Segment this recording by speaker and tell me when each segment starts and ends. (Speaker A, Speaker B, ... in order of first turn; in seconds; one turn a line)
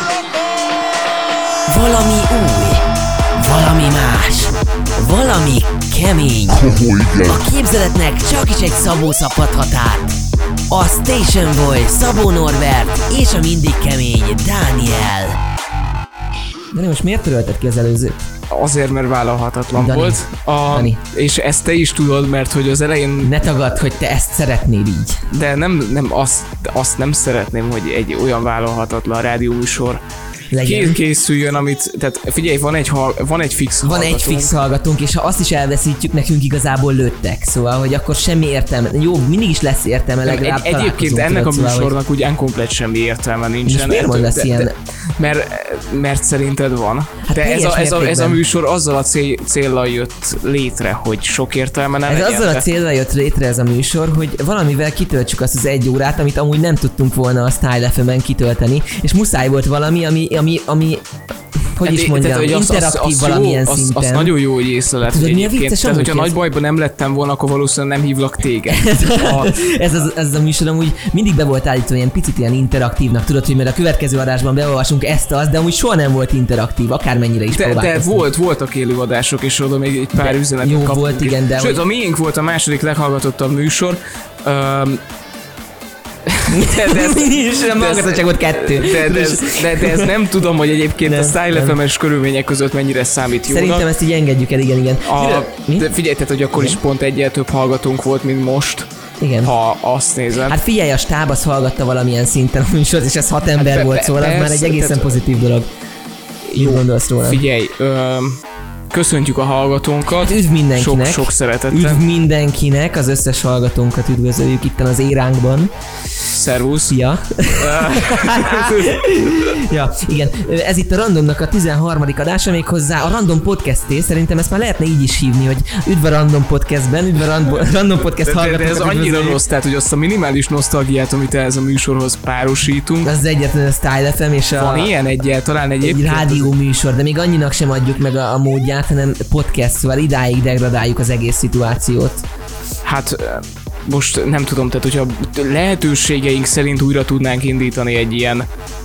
Speaker A: 1.7-2.9
Speaker A: 3.4-10.2
Speaker A: 10.7-15.4
Speaker A: 16.7-18.3
Speaker B: 18.5-23.3
Speaker A: 19.8-21.0
Speaker A: 23.2-25.2
Speaker B: 25.3-30.0
Speaker A: 30.5-31.0
Speaker B: 30.6-34.5
Speaker A: 33.8-41.9
Speaker B: 40.2-52.6
Speaker A: 43.6-44.7
Speaker A: 47.2-48.4
Speaker A: 52.1-64.4
Speaker B: 61.8-69.6
Speaker A: 65.0-66.4
Speaker A: 68.7-78.3
Speaker B: 77.5-85.0
Speaker A: 80.2-81.8
Speaker B: 86.3-93.9
Speaker A: 86.5-90.2
Speaker A: 91.0-91.8
Speaker A: 93.5-95.9
Speaker B: 95.1-98.9
Speaker A: 99.2-99.5
Speaker B: 99.4-100.6
Speaker A: 100.5-105.7
Speaker B: 103.6-105.2
Speaker B: 106.5-112.0
Speaker A: 106.6-107.4
Speaker A: 110.2-115.7
Speaker B: 116.3-117.0
Speaker A: 116.9-129.4
Speaker B: 117.5-119.6
Speaker B: 128.2-133.1
Speaker A: 133.0-134.9
Speaker B: 134.6-136.5
Speaker A: 135.8-142.2
Speaker B: 142.8-148.5